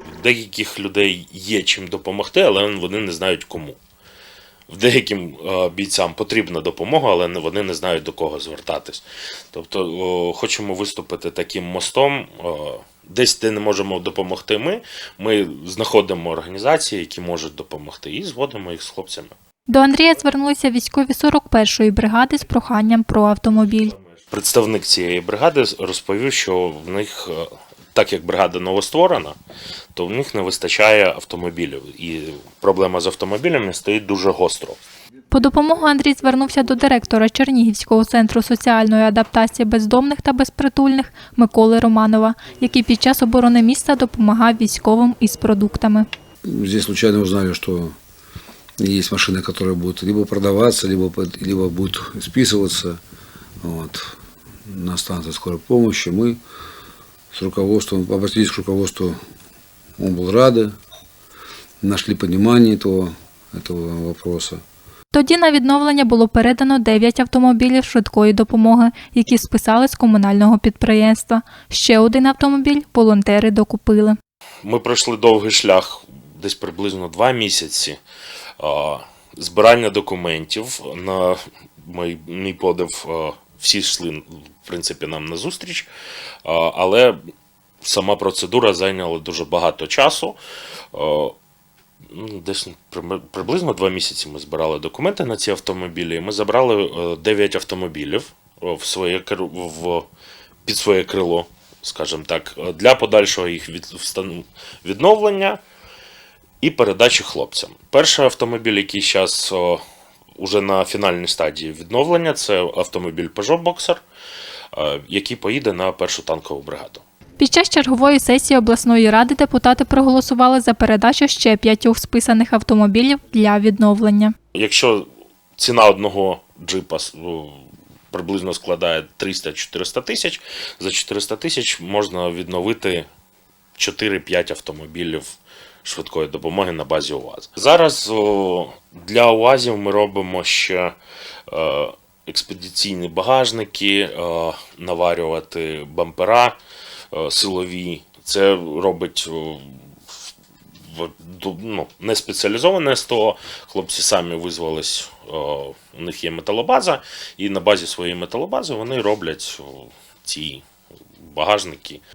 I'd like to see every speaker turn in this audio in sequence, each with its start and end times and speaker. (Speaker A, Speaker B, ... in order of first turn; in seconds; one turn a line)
Speaker A: 0.2-3.8
Speaker A: 4.7-19.3
Speaker B: 19.7-23.9
Speaker A: 23.6-29.4
Speaker A: 29.9-34.8
Speaker B: 35.3-46.1
Speaker C: 46.4-47.9
Speaker C: 48.8-53.0
Speaker C: 53.6-54.1
Speaker C: 54.7-56.4
Speaker C: 57.3-59.2
Speaker C: 60.0-60.7
Speaker C: 61.8-64.6
Speaker B: 65.1-74.2
Speaker A: 74.6-78.0
Speaker A: 78.6-85.9
Speaker A: 86.4-87.2
Speaker A: 87.8-90.4
Speaker A: 90.9-91.3
Speaker A: 92.1-100.1
Speaker A: 100.6-105.6
Speaker A: 106.6-109.8
Speaker A: 110.4-114.0
Speaker A: 114.7-117.0
Speaker B: 117.4-124.3
Speaker A: 124.5-133.1
Speaker A: 133.8-140.9
Speaker A: 141.5-146.6
Speaker A: 147.1-150.1
Speaker A: 150.9-160.6
Speaker A: 161.2-162.0